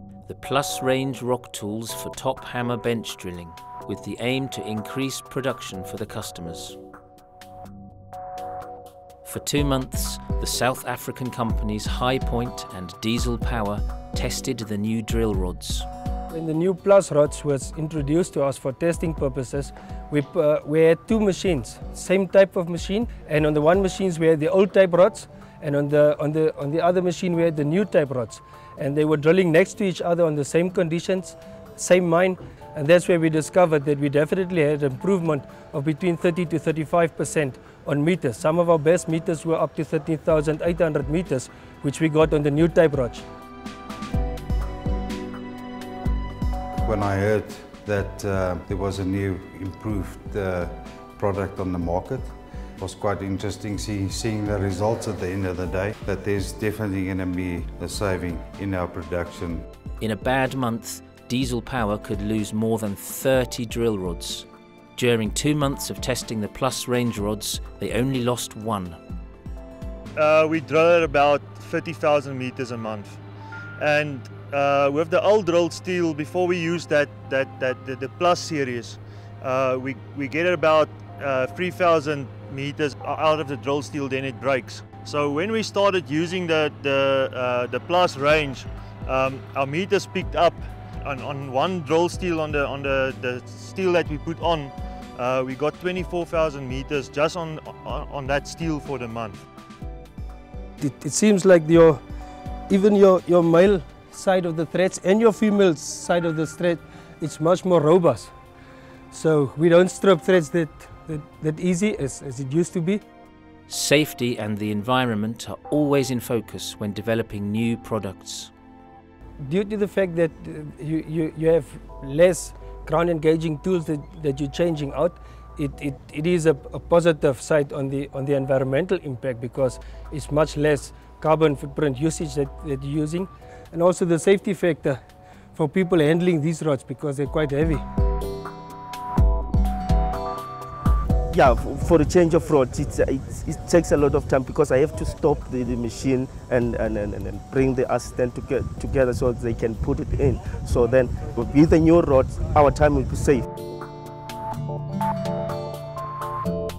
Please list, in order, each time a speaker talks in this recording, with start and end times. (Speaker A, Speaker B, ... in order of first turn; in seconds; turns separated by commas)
Speaker A: 0.3-6.8, Speaker A: 9.2-15.9, Speaker B: 16.3-43.3, Speaker C: 46.8-59.7, Speaker A: 60.0-69.0, Speaker D: 70.2-73.2, Speaker D: 73.8-99.4, Speaker B: 100.8-102.0, Speaker B: 102.7-108.3, Speaker B: 109.1-113.0, Speaker A: 113.7-118.5, Speaker B: 119.4-135.0, Speaker B: 135.6-137.8, Speaker E: 141.3-153.5